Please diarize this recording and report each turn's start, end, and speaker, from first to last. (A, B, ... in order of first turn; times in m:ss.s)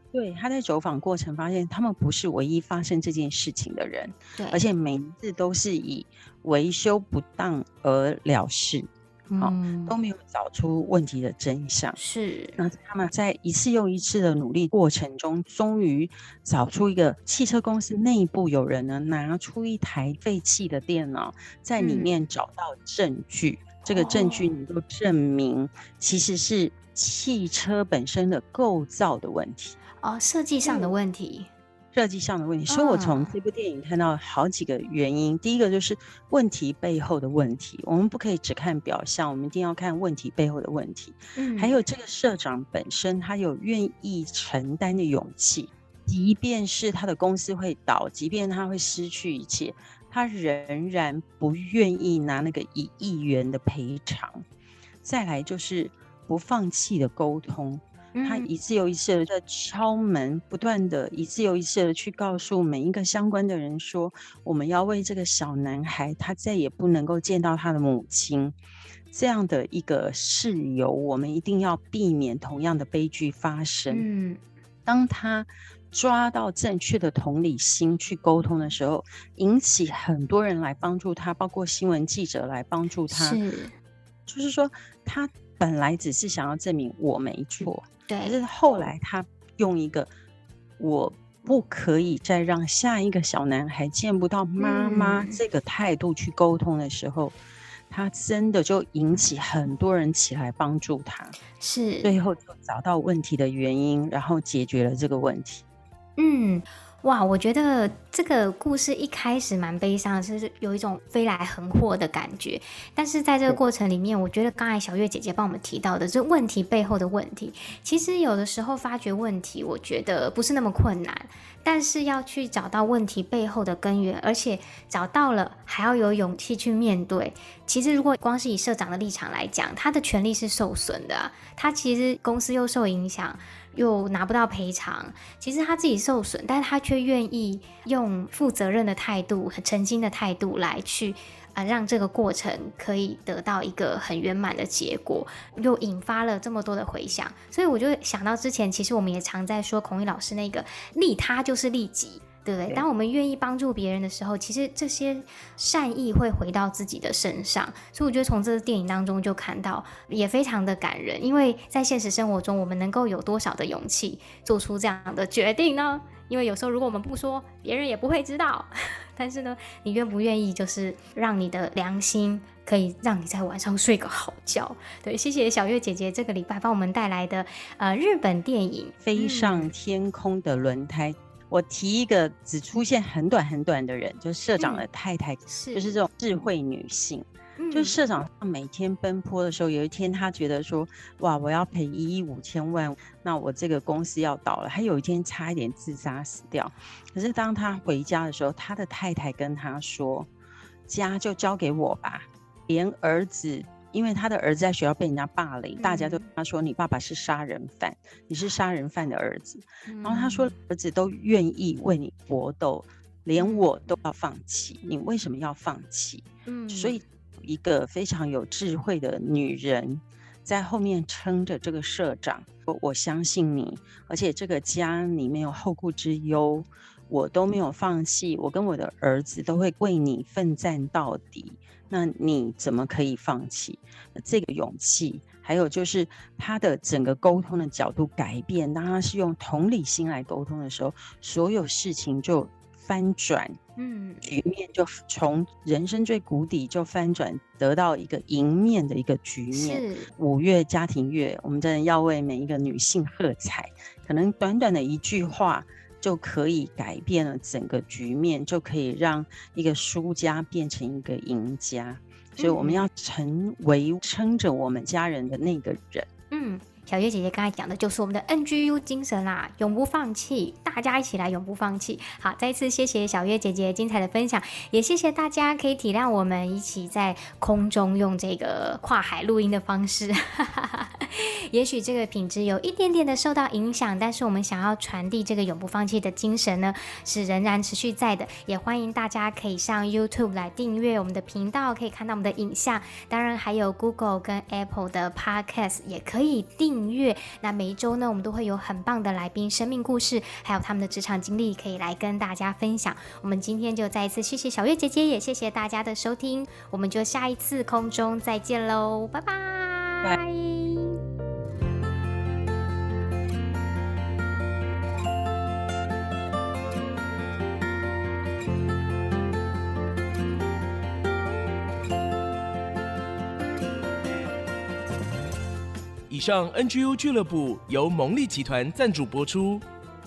0:00.1-0:08.9 A
0:04.4-0:04.6 B
0:09.3-0:09.9 B
0:09.4-0:12.0 A
0:12.0-0:12.6 B
0:12.6-0:29.8 A
0:21.8-0:22.1 B
0:23.9-0:24.5 B
0:30.0-0:31.5 B
0:30.6-0:30.9 A
0:31.9-0:54.4 A
0:32.7-0:33.3 B
0:41.4-0:41.7 B
0:55.0-1:08.6 A
0:58.1-0:58.5 B
1:09.1-1:14.0 A
1:13.9-1:14.4 B
1:14.8-1:23.4 A
1:23.1-1:23.7 B
1:24.3-1:30.1 A
1:28.1-1:28.4 B
1:30.8-1:37.3 A
1:34.6-1:35.4 B
1:37.9-1:41.4 A
1:41.6-1:42.1 B
1:42.0-1:45.6 A
1:46.2-2:59.7 B
2:59.0-3:20.3 A
3:04.6-3:04.8 B
3:05.5-3:06.0 B
3:07.6-3:08.0 B
3:20.9-4:03.6 A
3:25.8-3:26.3 B
3:29.9-3:30.5 B
3:33.4-3:33.7 B
3:36.5-3:37.0 B
4:03.8-4:04.3 B
4:04.2-4:26.1 A
4:09.5-4:10.1 B
4:22.4-4:22.9 B
4:26.3-5:11.0 B
5:26.1-5:29.6 C